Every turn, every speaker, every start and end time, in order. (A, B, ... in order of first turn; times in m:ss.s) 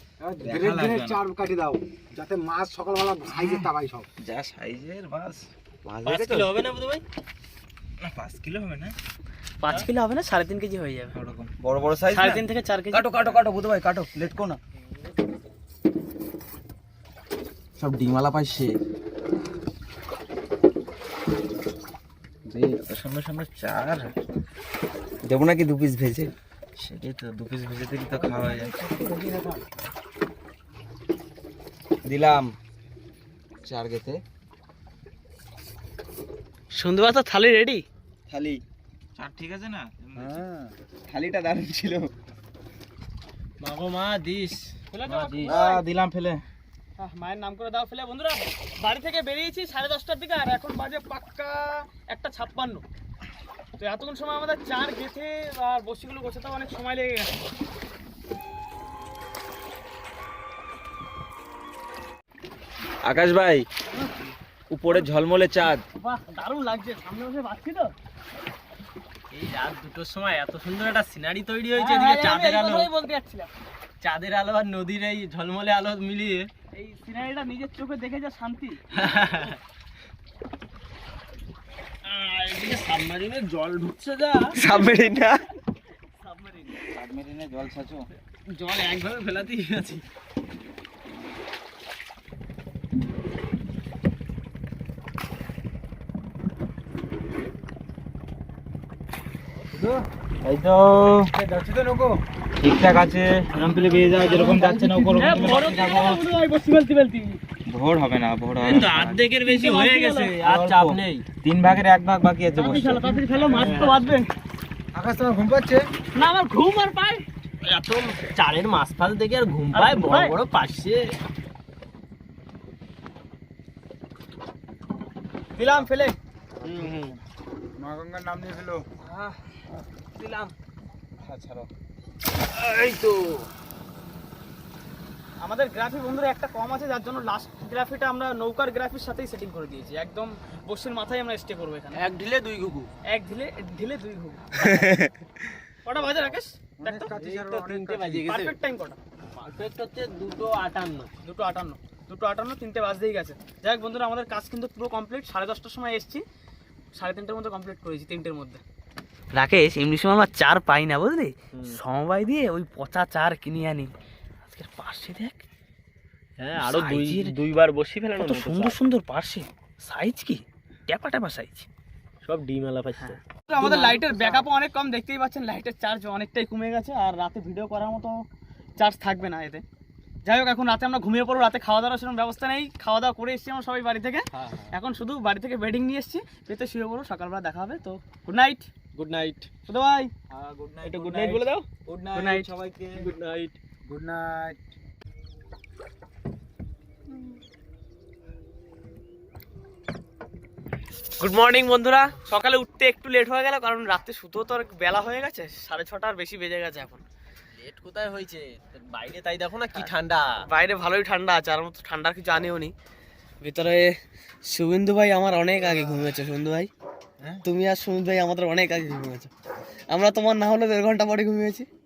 0:00.2-0:04.1 A
0:00.4-0:01.2 B
0:03.4-0:03.7 B
0:04.2-0:06.5 B
0:06.0-0:07.0 C
0:08.0-0:08.9 B
0:09.6-0:11.1 D
0:11.1-0:14.6 B
0:12.1-0:13.1 D
0:17.8-0:18.8 B
0:22.5-0:24.1 B
0:25.2-0:28.7 B
0:28.1-0:29.6 A
0:32.0-0:32.5 B
0:33.6-0:34.2 B
0:36.7-0:37.8 D
0:38.3-0:38.6 B
0:39.2-0:40.4 B
0:40.2-0:40.7 A
0:41.1-0:42.1 B
0:43.6-0:44.6 C
0:44.9-0:45.8 D
0:45.1-0:46.4 B
0:47.0-0:52.8 D
0:53.8-0:57.3 D
1:03.0-1:03.6 B
1:03.9-1:04.3 D
1:04.7-1:05.8 B
1:06.0-1:07.9 D
1:09.3-1:12.9 C
1:11.7-1:13.5 D
1:14.0-1:16.5 C
1:16.7-1:18.8 D
1:18.9-1:19.6 C
1:22.0-1:24.6 C
1:24.5-1:25.4 B
1:24.7-1:25.1 D
1:26.2-1:26.9 D
1:26.9-1:28.1 B
1:28.5-1:30.0 C
1:39.7-1:40.0 A
1:40.4-1:41.3 B
1:41.3-1:42.2 A
1:42.6-1:46.2 B
1:43.9-1:46.0 A
1:45.2-1:47.4 D
1:47.7-1:49.2 B
1:48.6-1:51.2 C
1:49.4-1:50.4 D
1:50.4-1:53.1 B
1:52.5-1:54.3 D
1:52.8-1:54.0 C
1:52.9-1:53.8 A
1:54.9-1:55.8 A
1:56.1-1:57.2 D
1:57.6-2:01.2 C
1:59.7-2:00.4 D
2:05.5-2:06.2 D
2:06.6-2:07.1 B
2:06.6-2:07.1 C
2:07.8-2:08.8 A
2:09.0-2:09.3 D
2:10.2-2:10.5 D
2:11.2-2:11.7 B
2:12.6-2:13.5 C
2:15.4-2:22.0 D
2:21.9-2:22.9 C
2:23.1-2:24.6 D
2:24.6-2:25.1 B
2:25.8-2:27.1 D
2:26.8-2:28.3 A
2:27.0-2:28.6 C
2:28.2-2:29.0 D
2:29.4-2:31.1 C
2:31.2-2:36.2 D
2:36.9-2:38.6 D
2:39.3-2:43.9 D
2:41.5-2:41.8 C
2:44.5-2:45.4 D
2:46.4-2:48.8 C
2:46.7-2:47.3 D
2:48.2-2:51.7 D
2:52.2-2:54.4 C
2:53.0-2:58.2 D
2:58.8-2:59.6 D
3:00.2-3:08.7 D
3:04.3-3:04.7 C
3:08.9-3:09.5 C
3:09.6-3:10.1 D
3:10.3-3:13.0 B
3:10.8-3:11.4 C
3:11.2-3:12.5 D
3:13.0-3:13.6 C
3:13.9-3:14.6 A
3:21.2-3:27.0 D
3:27.6-3:30.3 C
3:30.4-3:32.7 D
3:33.4-3:36.7 D
3:37.4-3:39.3 D
3:39.9-3:41.7 D